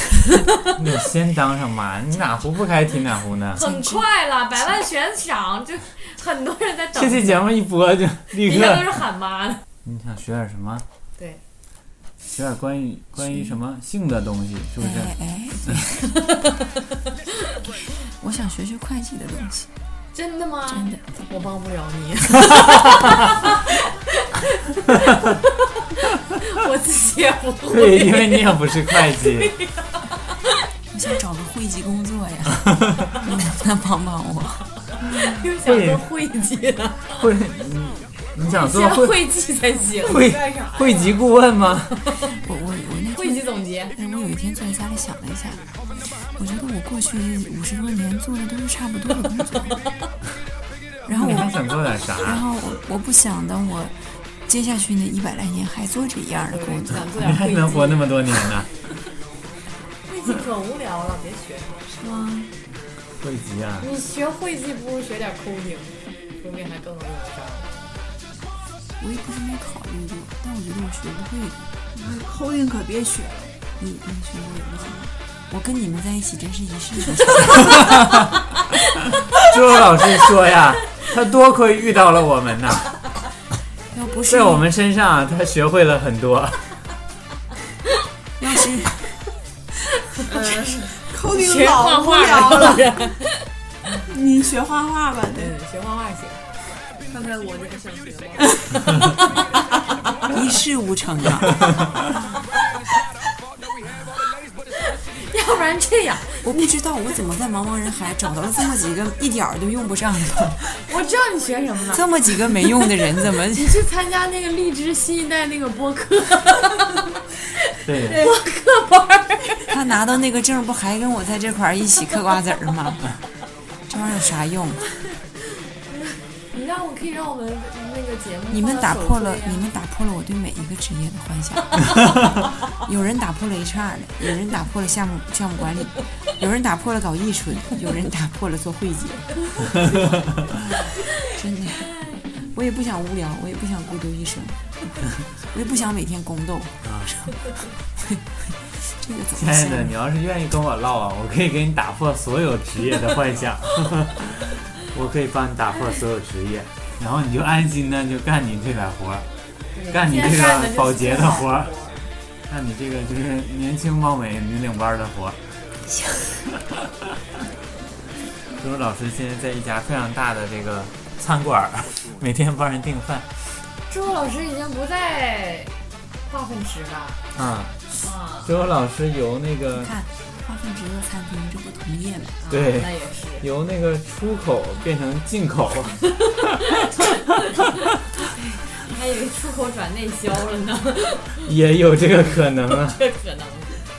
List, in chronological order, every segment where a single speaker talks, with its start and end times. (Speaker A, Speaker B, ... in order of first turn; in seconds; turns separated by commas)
Speaker A: 0.8-3.6, Speaker B: 3.5-7.5, Speaker C: 3.6-4.0, Speaker A: 6.9-9.0, Speaker B: 8.3-9.6, Speaker A: 9.8-10.8, Speaker A: 12.3-15.1, Speaker C: 13.2-13.6, Speaker C: 14.8-16.2, Speaker C: 18.2-19.7, Speaker B: 20.1-30.1, Speaker C: 20.7-21.1, Speaker A: 27.7-29.5, Speaker C: 30.9-34.7, Speaker A: 35.0-36.0, Speaker B: 35.1-37.2, Speaker A: 37.1-39.2, Speaker B: 38.4-40.3, Speaker A: 40.0-42.0, Speaker D: 40.1-41.2, Speaker C: 42.4-49.8, Speaker B: 43.1-43.9, Speaker C: 51.0-51.6, Speaker A: 51.1-52.4, Speaker C: 52.2-57.1, Speaker B: 56.5-58.2, Speaker A: 57.1-58.7, Speaker B: 60.1-61.8, Speaker C: 61.9-62.5, Speaker A: 63.2-63.9, Speaker B: 63.8-67.7, Speaker C: 69.0-71.7, Speaker E: 71.9-73.5, Speaker C: 73.8-78.0, Speaker A: 77.5-78.3, Speaker A: 79.4-82.9, Speaker C: 83.9-84.7, Speaker A: 84.2-86.7, Speaker C: 88.4-89.2, Speaker E: 90.3-93.0, Speaker B: 91.2-93.2, Speaker E: 94.0-95.5, Speaker B: 95.3-96.4, Speaker D: 97.0-98.6, Speaker C: 100.3-101.8, Speaker B: 105.1-106.5, Speaker C: 106.4-110.7, Speaker B: 110.9-112.1, Speaker C: 111.9-113.8, Speaker B: 113.5-117.0, Speaker B: 117.8-119.7, Speaker A: 117.8-118.2, Speaker C: 119.7-123.1, Speaker C: 123.9-124.8, Speaker B: 125.9-129.6, Speaker C: 128.5-132.3, Speaker C: 132.8-140.0, Speaker C: 141.1-144.6, Speaker C: 145.5-147.4, Speaker A: 146.8-147.1, Speaker C: 148.0-149.9, Speaker A: 149.3-159.2, Speaker B: 159.7-162.1, Speaker A: 159.9-161.7, Speaker A: 162.5-165.4, Speaker C: 165.9-166.2, Speaker A: 168.6-173.3, Speaker B: 173.9-175.7, Speaker B: 176.3-177.2, Speaker A: 177.3-177.8, Speaker B: 178.0-178.5, Speaker A: 178.4-179.9, Speaker C: 179.7-182.4, Speaker B: 182.4-183.4, Speaker A: 182.5-186.0, Speaker B: 188.7-191.4, Speaker A: 191.4-193.0, Speaker B: 192.7-193.8